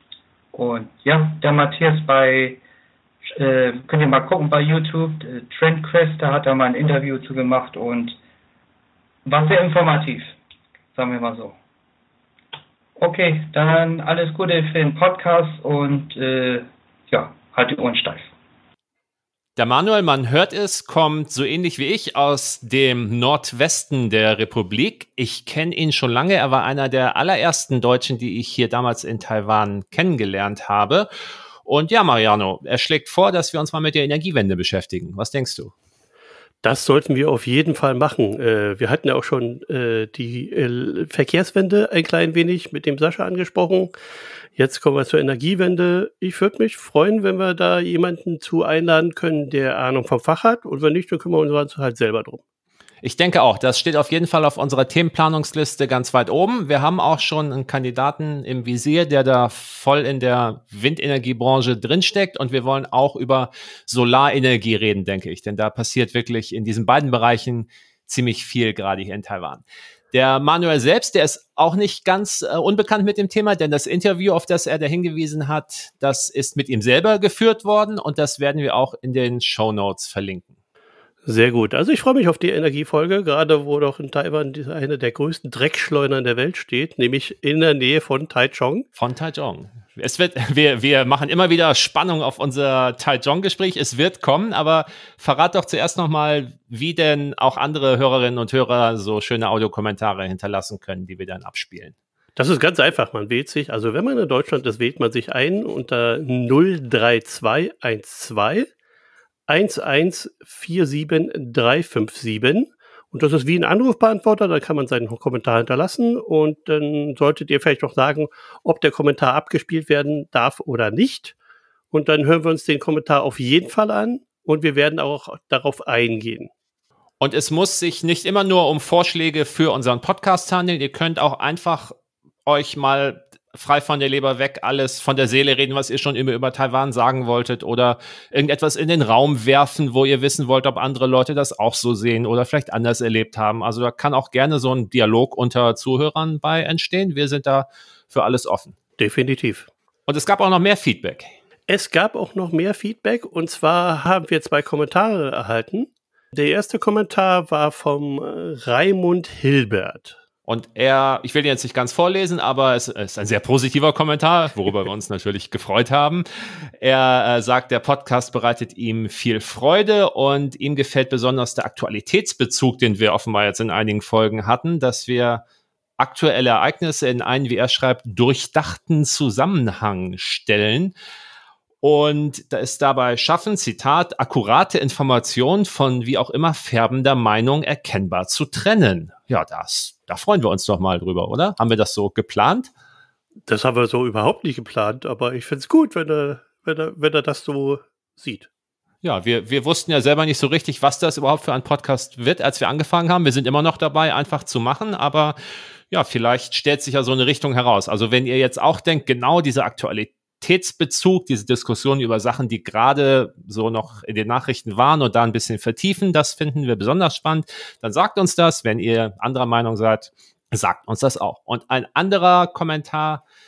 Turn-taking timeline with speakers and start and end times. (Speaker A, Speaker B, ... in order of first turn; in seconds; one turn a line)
Speaker A: 0.5-2.6
Speaker A: 3.4-8.2
Speaker A: 9.2-10.3
Speaker A: 10.9-11.6
Speaker A: 13.0-18.3
Speaker B: 19.6-31.1
Speaker B: 31.6-35.7
Speaker C: 36.6-43.9
Speaker C: 44.5-52.4
Speaker B: 53.0-80.5
Speaker C: 81.2-88.9
Speaker B: 89.0-102.0
Speaker C: 102.4-108.7
Speaker C: 109.5-121.3
Speaker C: 121.9-126.5
Speaker B: 127.2-148.8
Speaker C: 149.0-149.7
Speaker B: 150.1-151.3
Speaker C: 151.7-160.2
Speaker B: 160.5-166.3
Speaker B: 166.8-175.4
Speaker B: 176.0-180.9
Speaker B: 181.8-192.7
Speaker C: 193.5-198.5
Speaker B: 199.0-205.4
Speaker B: 205.9-223.2